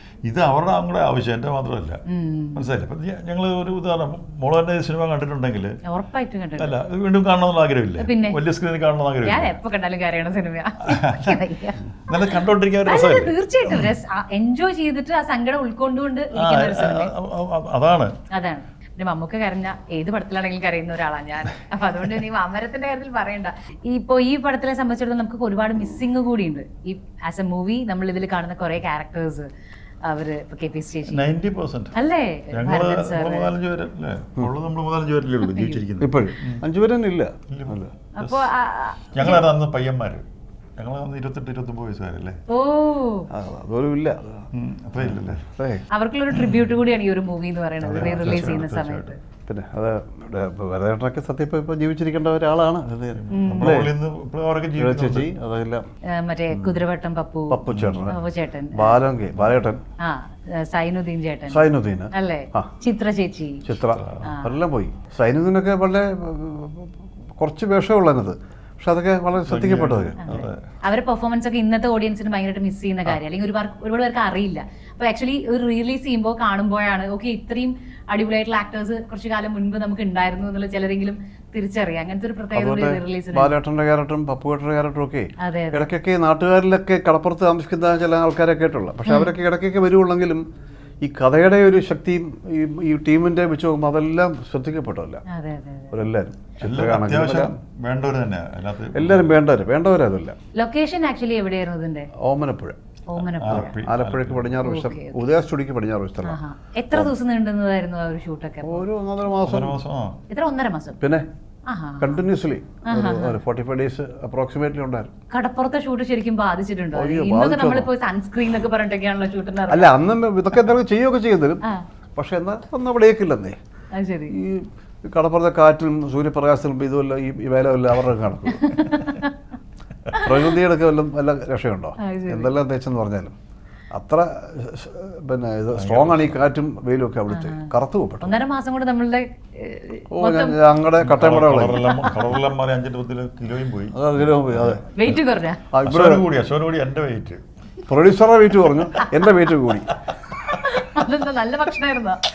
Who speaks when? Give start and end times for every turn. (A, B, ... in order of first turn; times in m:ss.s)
0:00.2-0:02.0 A
0:02.1-0:02.6 B
0:02.5-0:05.7 A
0:05.9-0:06.8 B
0:06.6-0:09.6 A
0:08.0-0:08.4 B
0:09.2-0:11.8 B
0:10.9-0:11.4 A
0:12.1-0:13.9 A
0:12.8-0:17.1 B
0:16.3-0:18.1 A
0:18.3-0:29.5 B
0:30.0-0:31.2 B
0:31.1-0:32.0 A
0:32.0-0:33.5 B
0:32.5-0:36.6 A
0:35.4-0:35.8 B
0:36.0-0:37.9 C
0:37.5-0:38.5 A
0:38.1-0:39.4 B
0:39.1-0:40.2 A
0:40.8-0:42.4 A
0:42.5-0:43.3 B
0:43.3-0:45.8 C
0:44.5-0:45.4 A
0:45.9-0:49.2 B
0:46.3-0:46.7 A
0:47.8-0:49.1 A
0:47.9-0:48.6 C
0:49.5-0:53.9 C
0:53.1-0:55.3 A
0:53.3-0:53.8 B
0:54.8-0:55.8 C
0:56.1-0:59.1 B
0:57.5-0:58.2 C
0:57.7-0:58.2 A
0:58.7-0:59.8 C
0:59.4-0:59.7 A
1:00.0-1:03.6 B
1:01.5-1:02.7 C
1:03.6-1:10.2 C
1:03.7-1:04.4 A
1:04.2-1:04.6 B
1:09.4-1:10.6 A
1:10.2-1:23.5 B
1:22.5-1:30.4 C
1:25.4-1:25.9 B
1:29.0-1:29.3 B
1:31.0-1:35.2 C
1:35.3-1:35.9 B
1:35.9-1:37.5 C
1:36.6-1:39.4 A
1:38.9-1:40.4 C
1:40.6-1:42.1 B
1:42.2-1:42.8 C
1:43.1-1:43.7 B
1:43.2-1:44.6 A
1:43.5-1:46.4 C
1:44.6-1:45.2 B
1:46.2-1:48.8 B
1:48.6-1:49.8 C
1:49.4-1:50.2 A
1:50.3-1:51.0 B
1:51.0-1:51.2 C
1:51.7-1:52.2 B
1:52.0-1:55.1 C
1:52.9-1:53.4 B
1:55.3-1:59.9 B
1:56.9-1:57.9 C
1:59.7-2:01.6 C
2:02.1-2:03.6 C
2:03.9-2:04.3 B
2:04.3-2:08.6 C
2:08.5-2:09.3 B
2:10.1-2:10.5 B
2:10.2-2:13.3 C
2:12.0-2:12.5 B
2:13.9-2:18.3 C
2:15.7-2:16.4 A
2:17.3-2:20.6 B
2:20.1-2:21.9 C
2:21.0-2:25.2 A
2:21.8-2:22.2 B
2:23.9-2:24.8 C
2:24.9-2:25.6 B
2:25.7-2:26.2 C
2:25.8-2:27.4 A
2:27.9-2:29.9 C
2:29.0-2:29.3 B
2:30.5-2:32.2 B